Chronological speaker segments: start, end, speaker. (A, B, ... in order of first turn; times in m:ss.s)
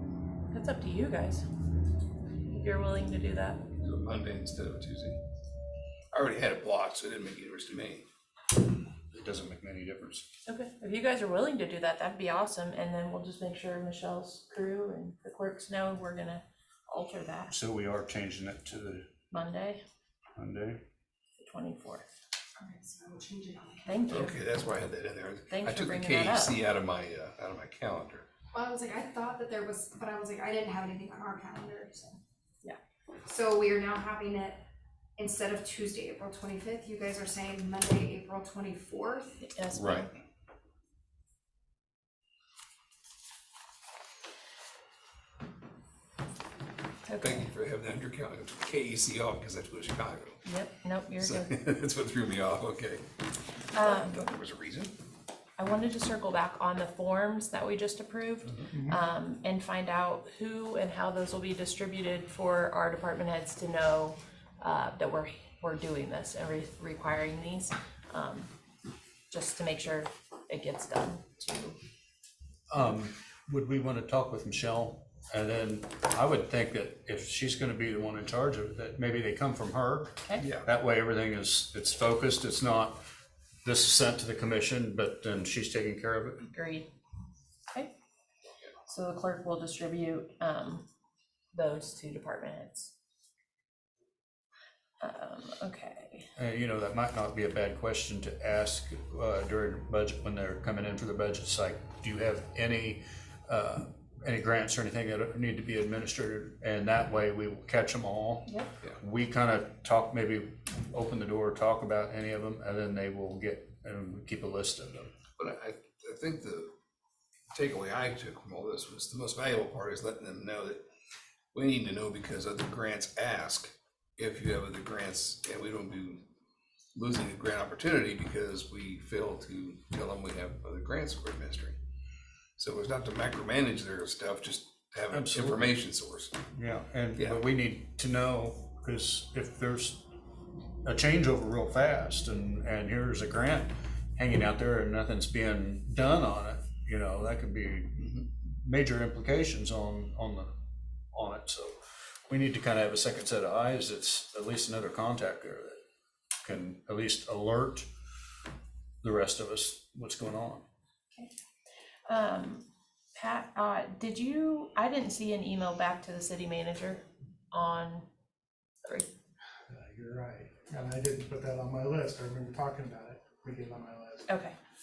0:00.5-0:01.4 A
0:02.4-0:03.6 A
0:03.8-0:05.2 B
0:06.1-0:08.0 B
0:09.1-0:10.2 C
0:10.4-0:17.5 A
0:17.5-0:19.0 C
0:19.3-0:19.8 A
0:20.4-0:20.8 C
0:21.4-0:22.0 A
0:22.6-0:23.9 D
0:23.8-0:24.4 A
0:24.1-0:28.2 B
0:25.5-0:26.6 A
0:28.5-0:32.2 D
0:33.2-0:34.6 D
0:35.2-0:39.4 D
0:39.4-0:40.1 A
0:39.7-0:40.1 B
0:47.0-0:47.5 A
0:47.2-0:50.4 B
0:50.4-0:51.5 A
0:51.2-0:53.0 B
0:53.7-0:54.2 A
0:53.7-0:54.9 B
0:55.6-1:08.5 A
0:58.7-0:59.0 E
1:09.3-1:11.8 A
1:12.7-1:23.0 C
1:20.4-1:20.7 B
1:23.6-1:26.5 C
1:26.5-1:26.9 A
1:28.9-1:30.8 A
1:31.5-1:32.9 A
1:35.0-1:36.3 A
1:36.4-1:55.1 C
1:55.4-1:56.7 B
1:57.5-2:00.8 B
2:01.5-2:06.2 B
2:06.9-2:11.8 B
2:12.6-2:16.4 B
2:15.1-2:15.7 C
2:16.5-2:20.0 C
2:20.8-2:30.5 C
2:31.1-2:35.8 C
2:36.4-2:37.9 C
2:39.0-2:40.6 C
2:42.1-2:42.6 A
2:43.1-2:48.0 A
2:49.7-2:54.3 E
2:54.3-2:54.6 A